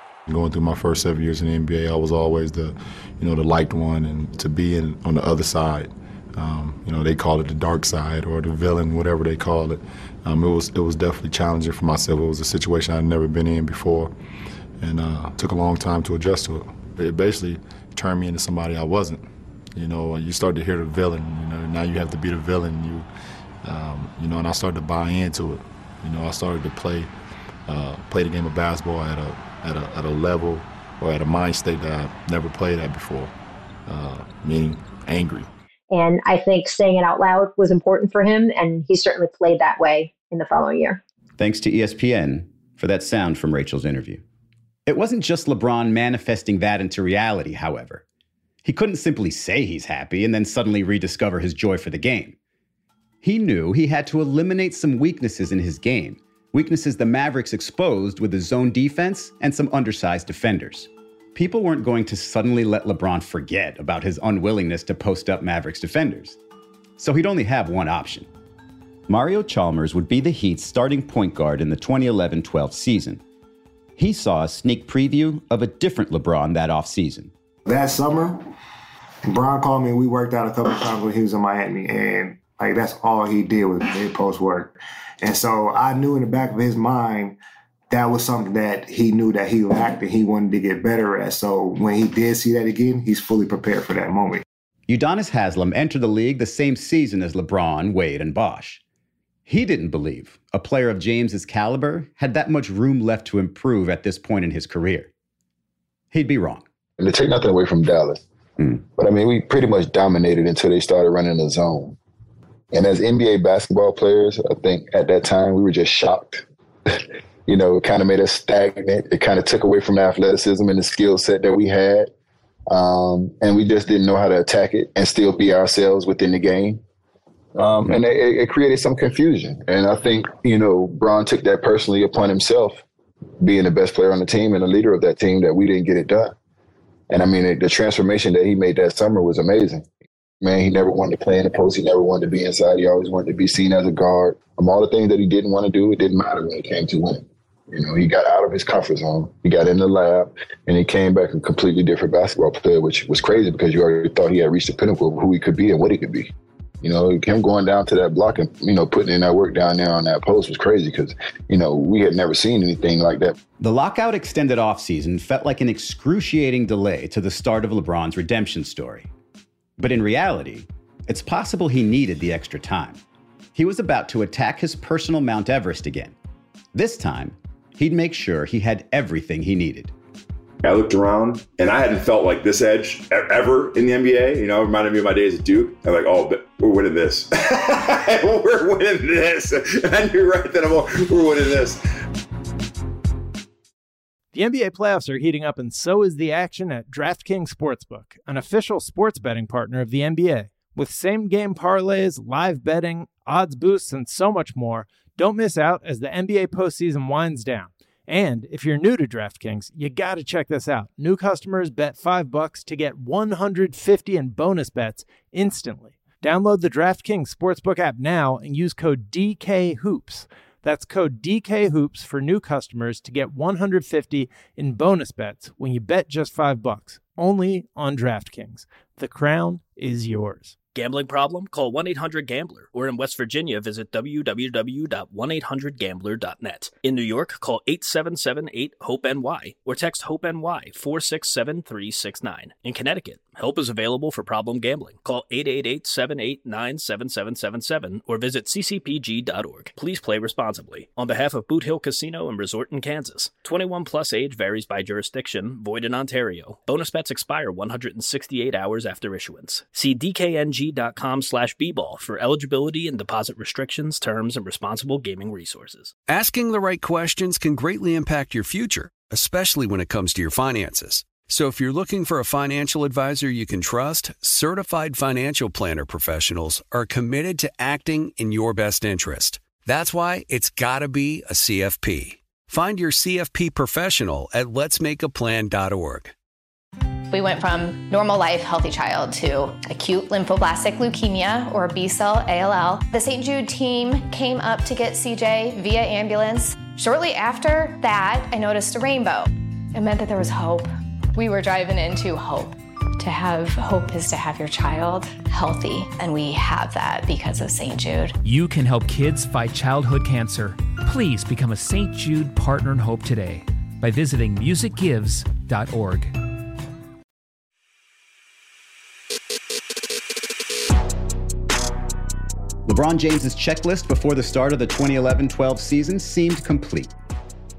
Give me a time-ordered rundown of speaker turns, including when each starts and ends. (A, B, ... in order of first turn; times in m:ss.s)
0:00.3-0:14.1 A
0:14.8-0:19.2 A
0:19.8-0:23.1 A
0:23.6-0:27.1 A
0:27.7-0:33.3 A
0:33.9-0:35.5 A
0:35.9-0:41.0 B
0:41.4-0:44.2 C
0:44.9-0:48.0 C
0:48.6-0:52.4 C
0:53.2-1:06.4 C
1:07.0-1:08.3 C
1:09.1-1:13.2 C
1:14.0-1:17.3 C
1:17.7-1:18.4 D
1:19.3-1:27.4 D
1:27.9-1:34.4 D
1:34.9-1:38.8 C
1:39.5-1:45.1 C
1:46.1-1:46.7 C
1:47.0-1:48.2 E
1:48.9-1:52.0 E
1:52.7-2:02.1 E
2:02.7-2:06.8 E
2:07.6-2:12.8 E
2:13.4-2:16.4 E
2:17.1-2:19.9 E
2:20.4-2:36.3 E
2:36.8-2:43.4 E
2:43.6-2:49.1 C
2:49.8-2:53.0 C
2:53.6-2:56.2 C
2:56.7-2:59.9 C
3:00.6-3:11.8 F
3:14.3-3:50.6 G
3:50.8-4:26.0 H
4:26.1-4:46.1 I
4:47.1-5:08.2 J
5:08.2-5:16.2 K
5:22.6-5:26.9 C